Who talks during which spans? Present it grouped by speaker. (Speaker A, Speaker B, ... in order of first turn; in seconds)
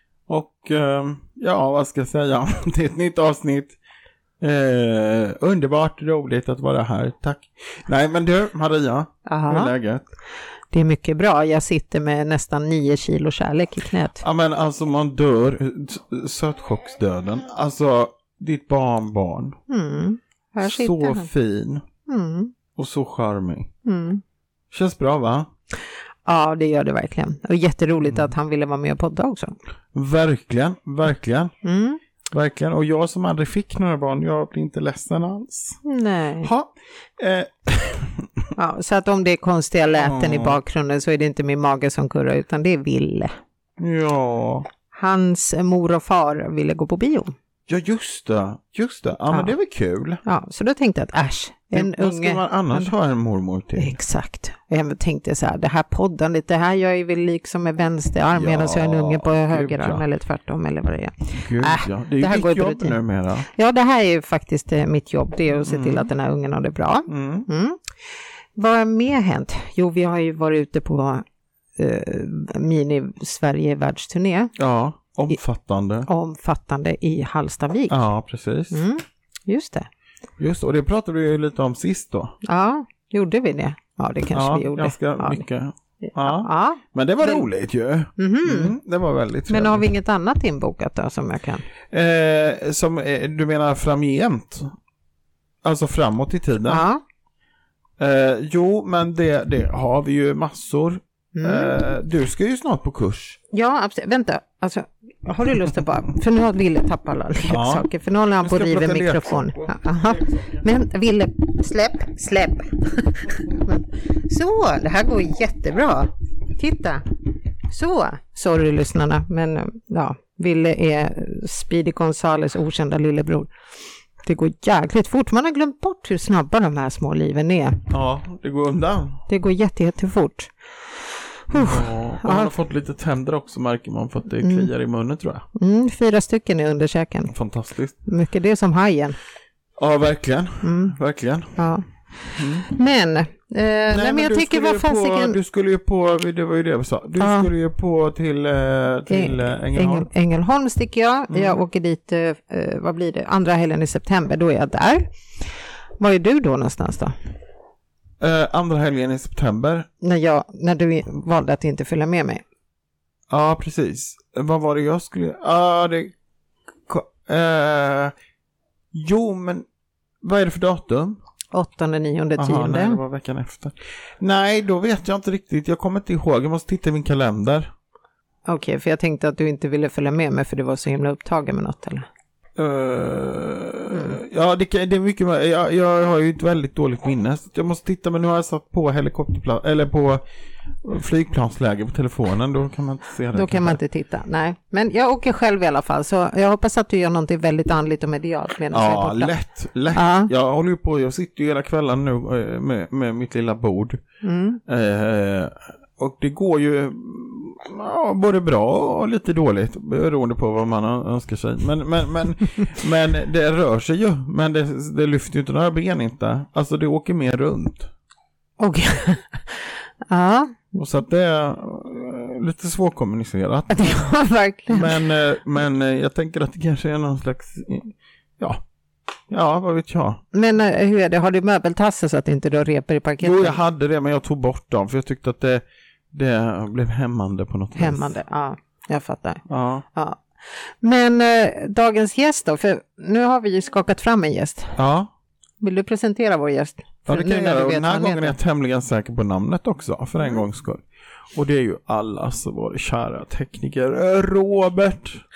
Speaker A: 0.3-3.8, 4.4-10.0, 14.2-19.6, 20.6-21.8, 22.8-23.7, 24.7-25.5, 29.9-31.5, 32.3-35.8, 36.4-38.4, 40.0-40.6, 43.8-44.7, 47.7-50.2, 51.7-53.9, 58.3-60.0, 61.4-63.5, 65.6-66.1, 67.1-67.5, 74.6-76.1, 77.9-78.8, 80.4-82.3, 84.3-89.8, 91.9-94.7, 95.6-96.8, 98.0-103.4, 107.5-107.9, 108.4-110.6, 127.9-129.2, 131.5-135.4, 137.3-137.9, 139.8-141.6, 142.3-142.7, 143.9-150.1, 151.3-151.6, 158.2-159.9, 163.3-166.1, 166.9-168.1, 168.9-169.7, 170.2-171.2, 172.4-177.7, 182.6-190.2, 190.8-193.8, 198.7-204.0, 204.7-217.9, 220.7-224.0, 224.7-228.6, 229.3-230.2, 233.2-238.1, 239.5-239.8, 244.8-245.1, 247.1-250.8, 251.3-255.2
Speaker B: 9.2-9.7, 10.7-14.2, 19.7-21.3, 22.1-22.5, 23.8-24.2, 26.2-29.5, 31.6-32.0, 35.8-36.5, 38.5-43.3, 44.9-47.3, 50.2-52.9, 53.8-67.8, 68.5-71.2, 71.8-74.5, 76.1-78.0, 78.7-79.9, 82.4-85.4, 86.0-87.5, 88.2-88.8, 89.5-91.6, 96.6-97.0, 101.3-101.8, 103.5-123.5, 124.2-127.8, 129.3-130.5, 131.5-132.5, 134.4-134.7, 135.6-137.3, 138.0-139.2, 140.6-140.9, 141.6-145.4, 147.2-147.5, 149.1-157.1, 160.0-162.4, 171.5-173.0, 178.4-182.1, 193.3-199.3, 199.9-200.3, 204.2-204.6, 218.6-220.6, 223.7-225.0, 230.3-233.6, 237.8-239.4, 239.9-244.8, 245.6-248.3